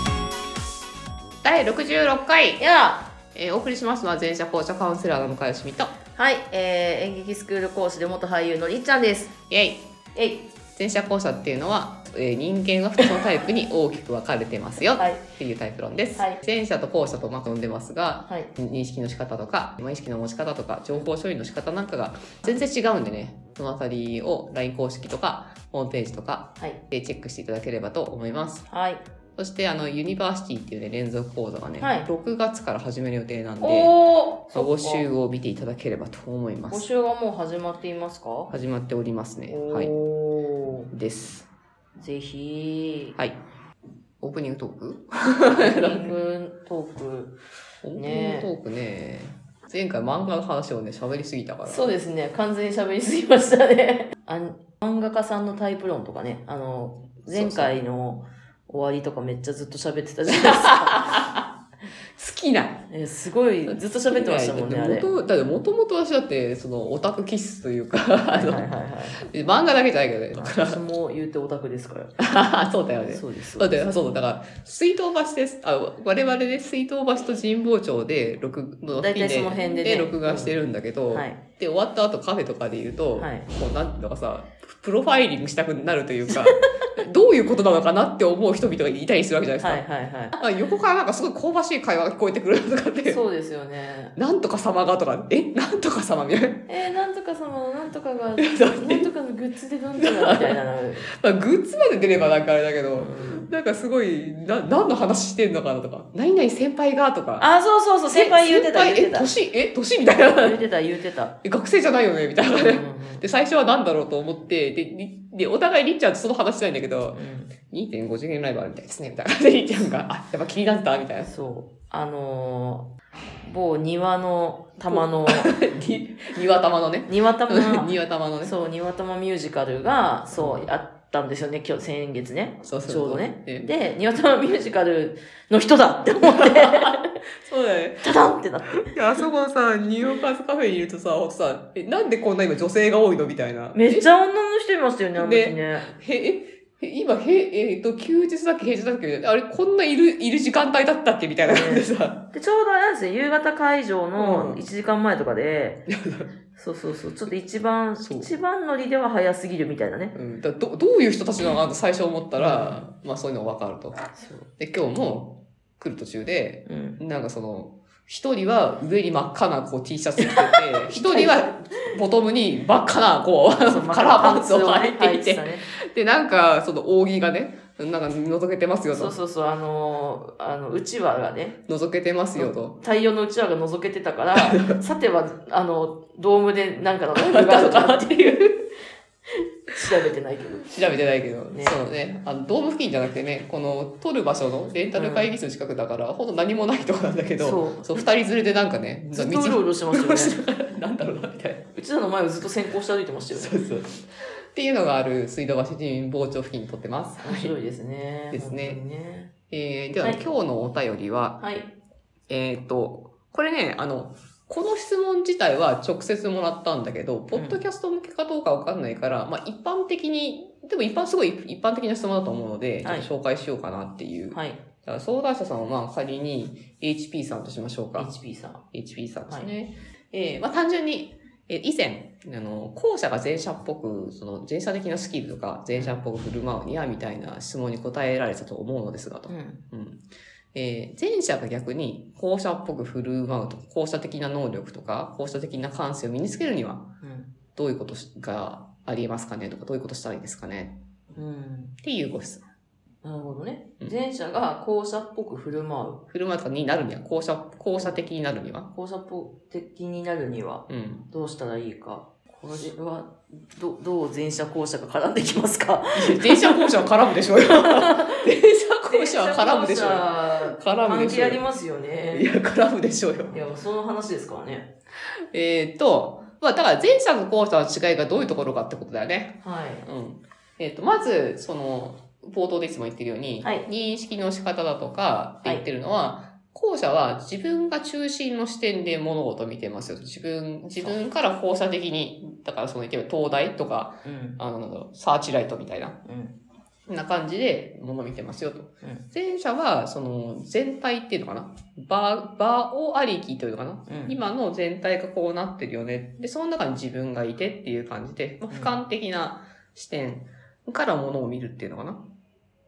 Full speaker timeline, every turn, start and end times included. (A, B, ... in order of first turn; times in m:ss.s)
0:01.4-0:02.6 A
0:02.6-0:03.1 B
0:03.3-0:05.9 A
0:06.1-0:09.3 B
0:09.5-0:09.8 A
0:10.1-0:10.5 B
0:10.8-0:28.6 A
0:15.0-0:15.2 B
0:28.7-0:29.0 B
0:29.4-0:33.9 A
0:31.8-0:32.1 B
0:33.6-0:35.1 B
0:34.5-0:36.9 A
0:36.7-0:38.5 B
0:38.5-0:39.9 A
0:39.5-0:40.9 B
0:40.9-0:41.5 A
0:42.0-0:43.2 B
0:44.2-0:46.1 A
0:45.5-0:47.4 B
0:47.8-0:51.9 A
0:48.0-0:48.5 B
0:51.6-1:01.3 B
0:57.2-0:57.7 A
1:00.3-1:01.4 A
1:02.2-1:02.8 A
1:02.9-1:05.1 B
1:03.6-1:10.8 A
1:08.3-1:09.2 B
1:10.4-1:12.2 B
1:12.2-1:29.8 A
1:13.1-1:13.9 B
1:18.9-1:21.4 B
1:23.2-1:23.5 B
1:26.3-1:26.6 B
1:29.6-1:30.4 B
1:30.4-1:33.2 A
1:33.1-1:34.1 B
1:34.2-1:36.6 A
1:36.7-1:41.1 B
1:38.4-1:39.1 A
1:40.0-1:47.5 A
1:43.0-1:43.5 B
1:47.4-1:49.4 B
1:48.1-1:50.6 A
1:50.3-1:51.3 B
1:51.4-2:01.3 A
1:52.5-1:53.2 B
1:57.1-1:57.5 B
2:01.2-2:02.9 B
2:03.4-2:05.5 B
2:04.8-2:08.5 A
2:07.1-2:17.1 B
2:10.4-2:10.7 A
2:12.6-2:13.7 A
2:16.2-2:24.0 A
2:18.0-2:19.0 B
2:23.7-2:25.9 B
2:25.2-2:32.2 A
2:31.4-2:35.8 B
2:34.2-2:34.6 A
2:35.9-2:36.3 A
2:36.5-2:40.1 B
2:38.0-2:38.3 A
2:40.1-2:44.0 A
2:42.4-2:42.9 B
2:44.1-2:44.5 B
2:44.6-2:59.1 A
2:46.6-2:47.0 B
2:50.2-2:51.8 B
2:53.5-2:55.6 B
2:58.9-3:01.6 B
3:01.7-3:02.8 A
3:02.4-3:08.7 B
3:04.3-3:04.8 A
3:07.1-3:08.1 A
3:09.7-3:11.8 B
3:10.7-3:21.6 A
3:14.9-3:15.3 B
3:17.4-3:18.0 B
3:19.1-3:20.4 B
3:21.7-3:23.6 B
3:23.3-3:24.0 A
3:24.5-3:27.5 A
3:27.2-3:29.3 B
3:28.3-3:28.8 A
3:29.5-3:31.4 A
3:30.0-3:30.3 B
3:31.4-3:31.7 B
3:32.3-3:48.1 A
3:37.3-3:37.6 B
3:42.8-3:43.1 B
3:44.3-3:44.6 B
3:47.9-3:48.6 B
3:48.7-4:00.0 A
3:55.7-3:56.0 B
3:59.3-3:59.6 B
4:00.5-4:06.8 A
4:07.0-4:07.3 B
4:07.6-4:10.8 A
4:11.1-4:11.7 B
4:11.8-4:12.4 A
4:13.0-4:16.0 B
4:16.1-4:18.7 A
4:18.7-4:28.2 B
4:20.7-4:21.0 A
4:25.9-4:31.4 A
4:28.9-4:32.3 B
4:32.1-4:33.4 A
4:33.3-4:34.7 B
4:35.3-4:56.0 A
4:39.4-4:39.8 B
4:54.0-4:54.4 B
4:56.0-4:56.4 B
4:56.9-5:12.0 A
5:03.9-5:04.2 B